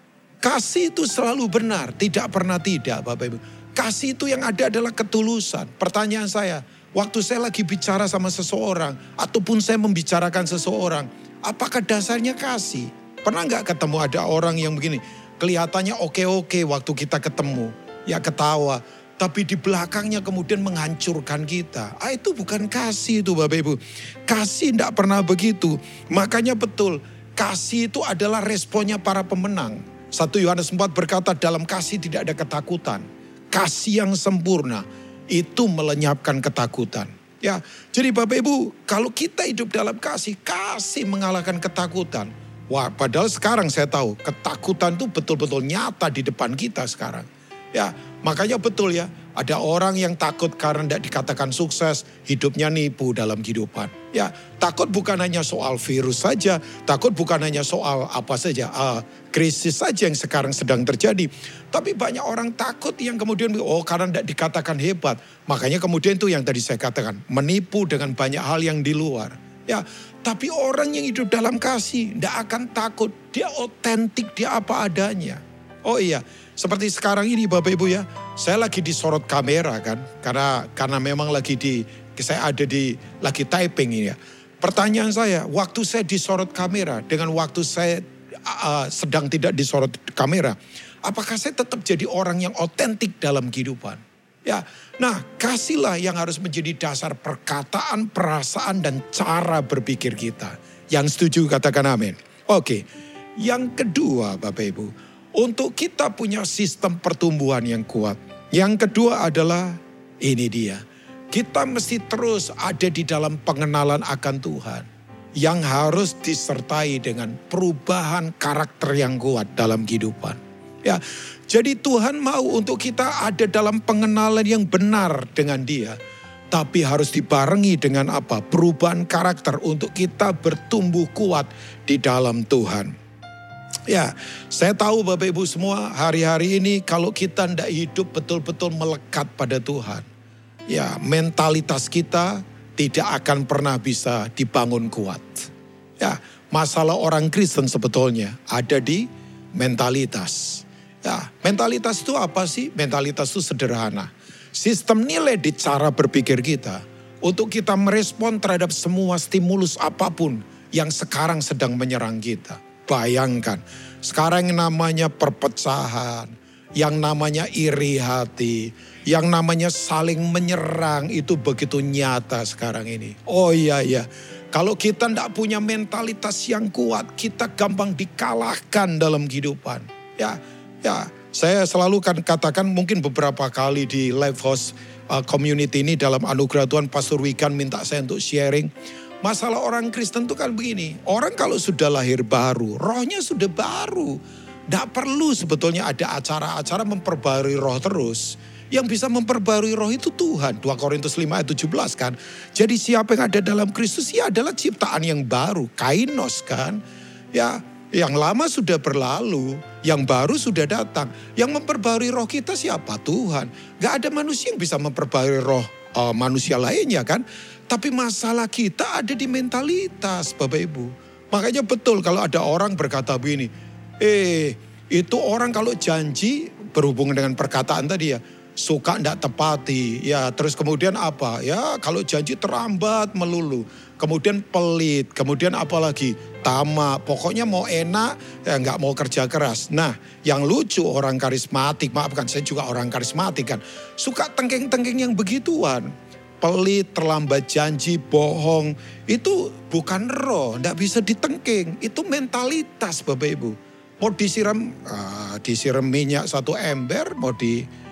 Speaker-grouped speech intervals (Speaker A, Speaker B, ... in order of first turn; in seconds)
Speaker A: 0.4-102.8, 103.4-114.9, 115.4-126.0, 126.5-132.9, 133.9-140.1, 140.7-188.7, 189.2-194.2, 194.7-206.8, 207.3-245.9, 246.4-257.7